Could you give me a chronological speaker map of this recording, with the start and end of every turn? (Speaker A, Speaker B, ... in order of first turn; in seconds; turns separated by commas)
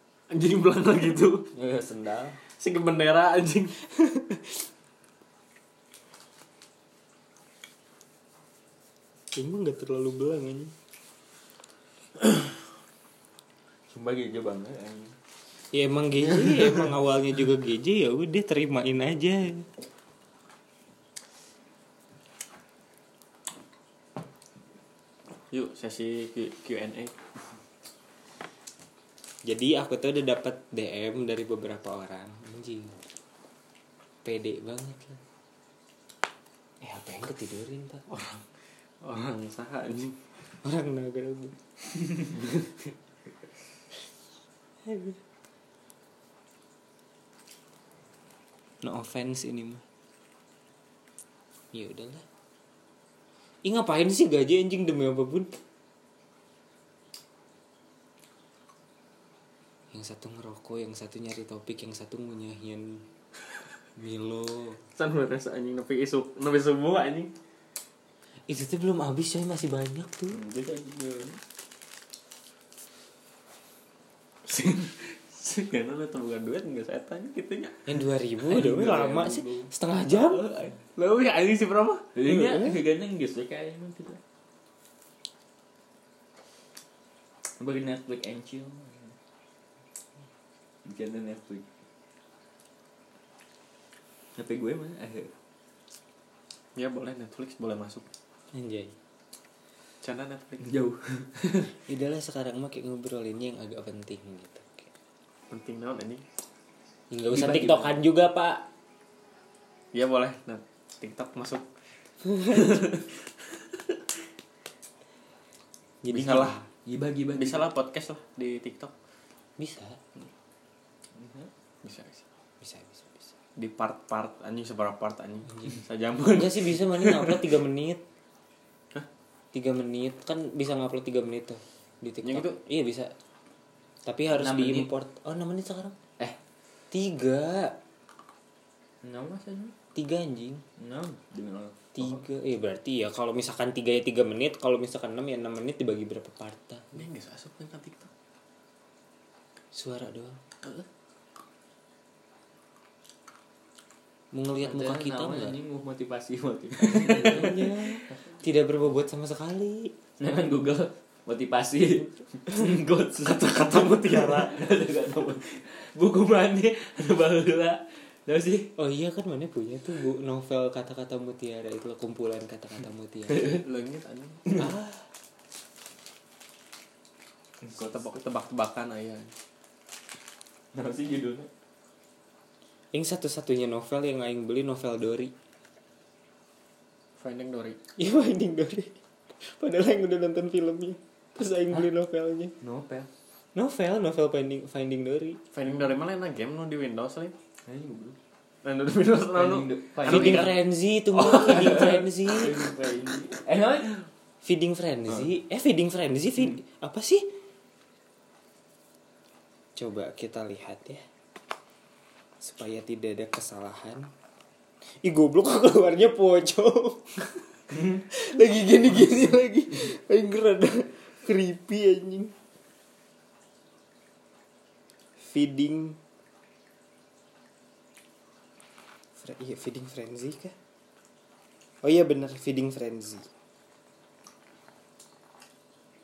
Speaker A: 0.3-1.5, Speaker B: 1.5-2.4, Speaker A: 2.5-3.8, Speaker C: 4.0-4.4, Speaker C: 9.3-10.7, Speaker B: 13.9-15.2, Speaker C: 15.7-19.7, Speaker B: 16.2-16.9, Speaker A: 25.5-27.1, Speaker C: 29.5-33.0, Speaker C: 34.2-35.2, Speaker C: 36.8-38.1, Speaker A: 38.1-40.3, Speaker C: 40.6-41.6, Speaker C: 44.8-45.2, Speaker C: 48.8-49.8, Speaker C: 51.7-52.2, Speaker C: 53.6-55.6, Speaker C: 59.9-63.0, Speaker C: 64.0-64.8, Speaker A: 65.0-67.3, Speaker C: 68.5-70.4, Speaker B: 70.3-71.4, Speaker A: 74.5-79.5, Speaker C: 77.8-80.4, Speaker A: 80.2-82.1, Speaker B: 82.1-84.2, Speaker C: 82.2-82.8, Speaker B: 87.6-89.2, Speaker B: 90.8-91.7, Speaker B: 94.3-95.3, Speaker A: 96.8-98.1, Speaker C: 98.5-98.9, Speaker A: 100.0-100.8, Speaker B: 100.6-101.7, Speaker C: 101.8-104.9, Speaker A: 105.5-106.2, Speaker C: 107.1-108.6, Speaker B: 107.3-108.0, Speaker A: 109.9-111.7, Speaker C: 112.3-112.7, Speaker A: 112.4-114.0, Speaker C: 116.0-116.6, Speaker A: 116.1-116.5, Speaker B: 116.1-117.7, Speaker A: 117.3-118.9, Speaker C: 119.6-120.0, Speaker B: 121.1-121.5, Speaker A: 121.8-122.2, Speaker C: 122.6-123.3, Speaker A: 123.5-127.5, Speaker C: 126.3-128.0, Speaker C: 129.5-133.1, Speaker A: 132.2-132.6, Speaker C: 134.0-135.9, Speaker B: 134.3-134.9, Speaker C: 136.9-137.7, Speaker B: 139.0-139.8, Speaker C: 139.9-140.6, Speaker B: 140.8-141.9, Speaker C: 141.9-147.0, Speaker A: 146.9-148.1, Speaker C: 149.7-150.4, Speaker C: 154.3-155.6, Speaker B: 154.6-158.1, Speaker C: 156.9-159.9, Speaker B: 160.2-168.7, Speaker A: 163.2-164.5, Speaker C: 168.8-173.5, Speaker A: 173.3-174.5, Speaker C: 174.6-175.1, Speaker B: 177.6-177.9, Speaker A: 177.7-179.3, Speaker B: 180.7-181.5, Speaker C: 182.9-185.3, Speaker A: 187.2-187.8, Speaker C: 188.0-192.5, Speaker B: 192.6-193.1, Speaker C: 193.5-195.4, Speaker A: 195.5-197.3, Speaker B: 197.7-198.2, Speaker A: 198.6-200.6, Speaker B: 199.3-200.5, Speaker C: 200.0-202.6, Speaker B: 201.2-204.1, Speaker A: 201.5-201.8, Speaker C: 204.4-207.3, Speaker C: 209.8-211.0, Speaker C: 212.4-214.1, Speaker C: 214.8-217.2, Speaker B: 217.7-218.0, Speaker C: 218.1-222.3, Speaker C: 225.2-226.0, Speaker C: 229.2-230.5, Speaker C: 231.8-233.3